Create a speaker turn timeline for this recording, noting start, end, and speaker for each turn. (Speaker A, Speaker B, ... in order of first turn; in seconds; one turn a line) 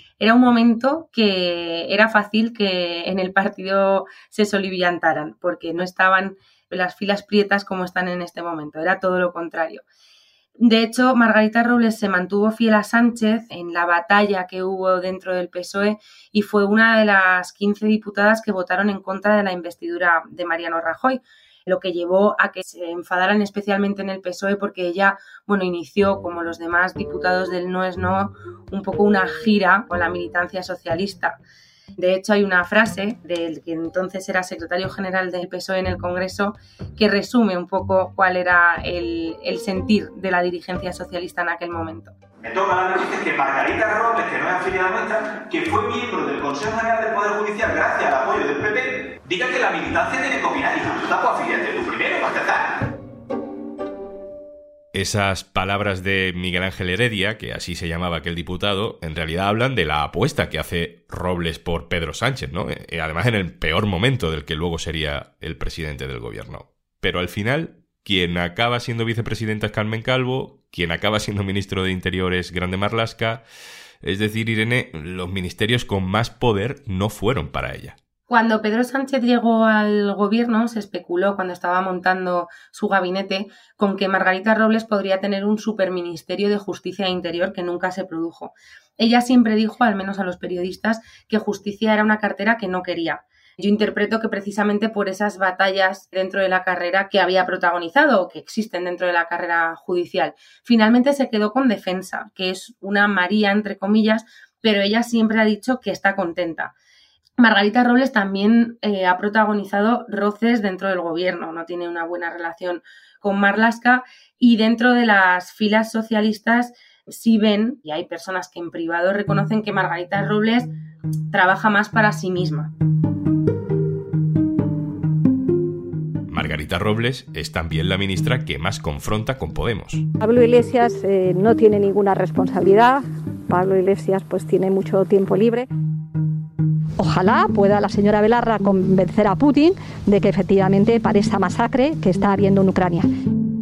Speaker A: 0.2-9.8
Speaker A: 10.6-31.4
Speaker A: 31.9-42.1
Speaker B: 42.4-52.8
Speaker C: 54.9-73.4
Speaker C: 74.0-78.0
Speaker A: 78.3-106.7
Speaker A: 107.4-120.7
Speaker A: 121.3-122.7
Speaker C: 126.3-130.1
Speaker D: 130.2-135.7
Speaker D: 137.0-143.1